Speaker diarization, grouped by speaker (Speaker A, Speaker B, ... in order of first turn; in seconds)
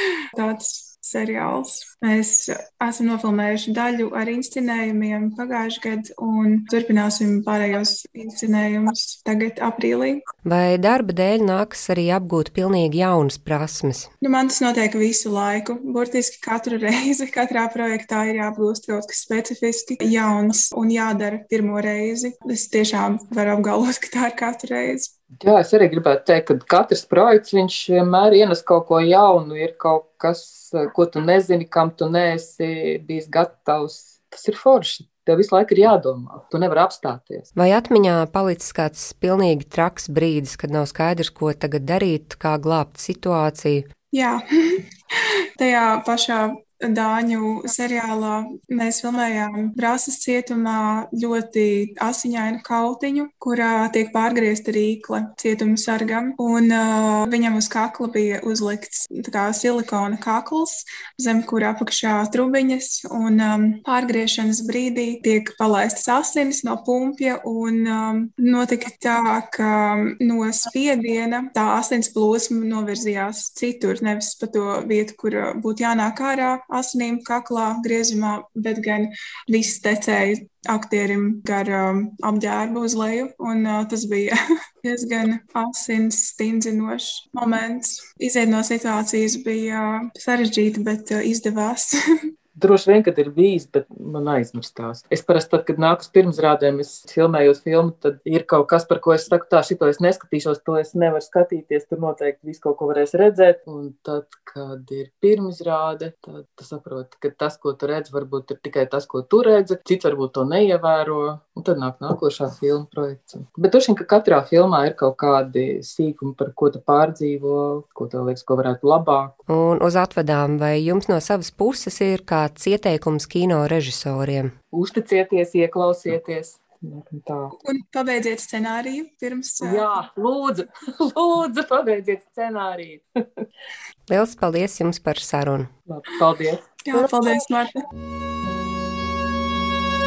Speaker A: 0.3-10.2, 14.2-25.1, 44.1-44.9, 45.6-91.9, 127.6-129.8, 136.9-137.8
Speaker B: 10.4-14.1, 37.6-43.9, 119.5-124.5, 134.1-135.7
Speaker C: 25.4-37.5, 92.6-119.3, 124.7-127.5, 129.6-133.1, 135.9-137.1